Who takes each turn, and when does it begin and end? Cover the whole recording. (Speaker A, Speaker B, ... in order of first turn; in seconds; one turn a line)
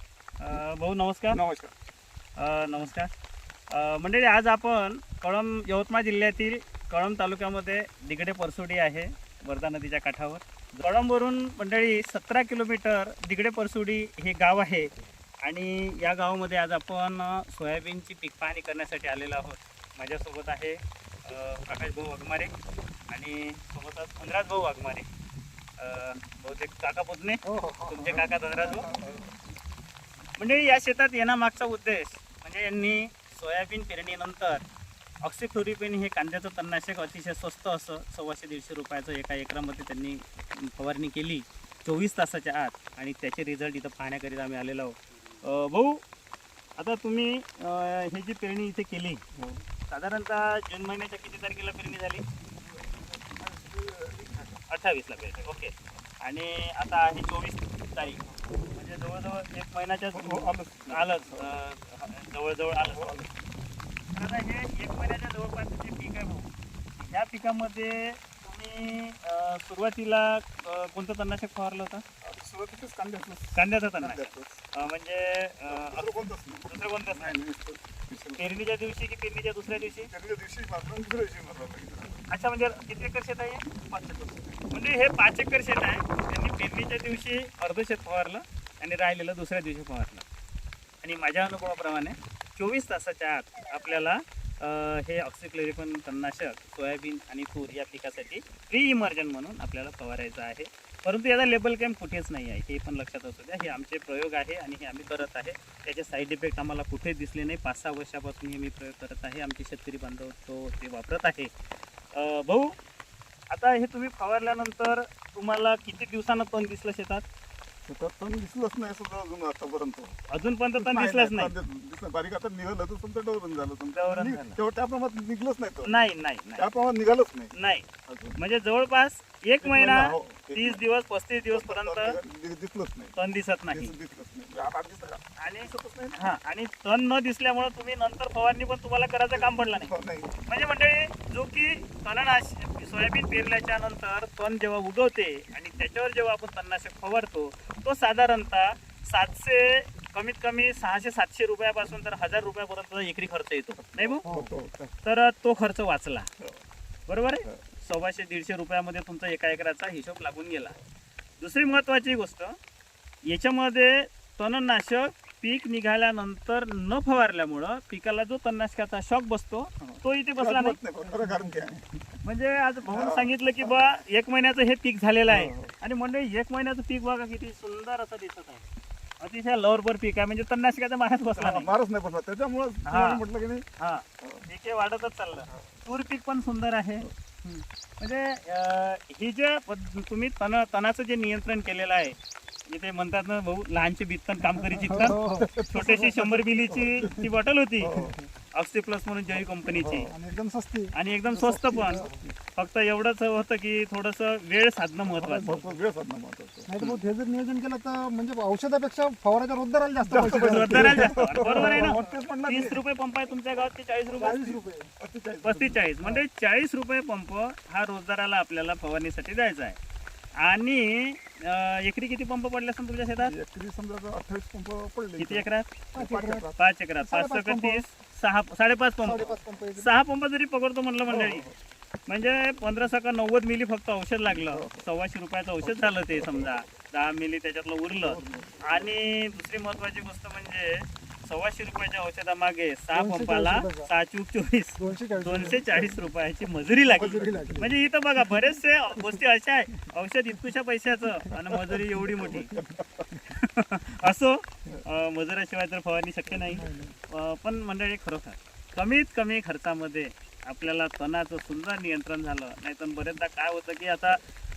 Speaker A: 0.4-1.4
Speaker B: 1.3-1.7
Speaker A: 2.4-3.1
Speaker A: 3.7-14.9
Speaker A: 15.4-22.5
Speaker A: 23.1-25.1
Speaker A: 25.8-28.9
Speaker C: 27.4-28.0
Speaker B: 28.0-29.3
Speaker A: 30.4-34.6
Speaker A: 35.2-46.0
Speaker A: 46.8-49.2
Speaker B: 49.3-49.6
Speaker A: 49.9-52.2
Speaker B: 52.6-54.6
Speaker A: 54.7-58.2
Speaker B: 58.2-58.5
Speaker A: 58.7-63.2
Speaker B: 60.1-61.6
Speaker B: 62.8-63.4
Speaker A: 64.1-72.0
Speaker B: 72.2-74.7
Speaker A: 73.5-76.0
Speaker B: 75.7-78.5
Speaker A: 76.7-77.3
Speaker A: 78.4-80.1
Speaker B: 80.1-82.3
Speaker A: 82.3-90.2
Speaker A: 91.0-111.5
Speaker A: 112.1-112.7
Speaker A: 113.5-117.2
Speaker B: 117.8-120.2
Speaker A: 120.3-121.5
Speaker B: 120.8-125.9
Speaker A: 123.9-124.6
Speaker A: 125.8-126.6
Speaker B: 126.6-127.5
Speaker A: 127.5-127.8
Speaker B: 128.1-128.4
Speaker A: 128.4-132.2
Speaker B: 129.6-130.8
Speaker B: 131.5-133.1
Speaker A: 133.2-133.9
Speaker B: 133.7-136.3
Speaker A: 135.4-139.9
Speaker B: 139.3-140.4
Speaker A: 140.5-154.2
Speaker B: 153.8-154.9
Speaker C: 154.2-154.5
Speaker A: 155.0-156.3
Speaker A: 157.1-160.8
Speaker A: 161.4-162.6
Speaker A: 163.2-170.8
Speaker B: 169.8-172.2
Speaker C: 171.1-171.5
Speaker A: 172.2-178.6
Speaker B: 172.9-173.8
Speaker B: 175.3-175.7
Speaker A: 179.2-181.7
Speaker B: 181.4-183.6
Speaker A: 182.8-183.2
Speaker A: 183.8-192.2
Speaker B: 184.2-184.5
Speaker A: 192.7-195.2
Speaker B: 194.5-198.2
Speaker C: 194.9-195.6
Speaker A: 195.7-200.1
Speaker B: 199.3-200.2
Speaker C: 200.1-202.2
Speaker A: 200.9-205.7
Speaker B: 201.7-202.3
Speaker B: 205.0-206.7
Speaker C: 206.7-212.0
Speaker B: 210.1-212.8
Speaker A: 210.2-214.6
Speaker C: 214.2-214.9
Speaker B: 214.2-215.8
Speaker A: 215.4-219.8
Speaker A: 220.4-223.3
Speaker B: 223.2-226.6
Speaker A: 225.2-225.7
Speaker C: 225.9-226.5
Speaker A: 226.6-231.5
Speaker C: 227.0-227.8
Speaker C: 229.0-229.9
Speaker B: 231.1-231.6
Speaker A: 232.1-252.5
Speaker B: 234.3-234.8
Speaker B: 235.6-236.7
Speaker B: 238.0-238.9
Speaker C: 242.9-243.9
Speaker C: 244.8-245.8
Speaker B: 245.6-245.9
Speaker C: 246.9-247.7
Speaker B: 246.9-247.7
Speaker B: 251.2-253.2
Speaker A: 253.2-264.2
Speaker B: 256.3-256.7
Speaker C: 256.6-256.9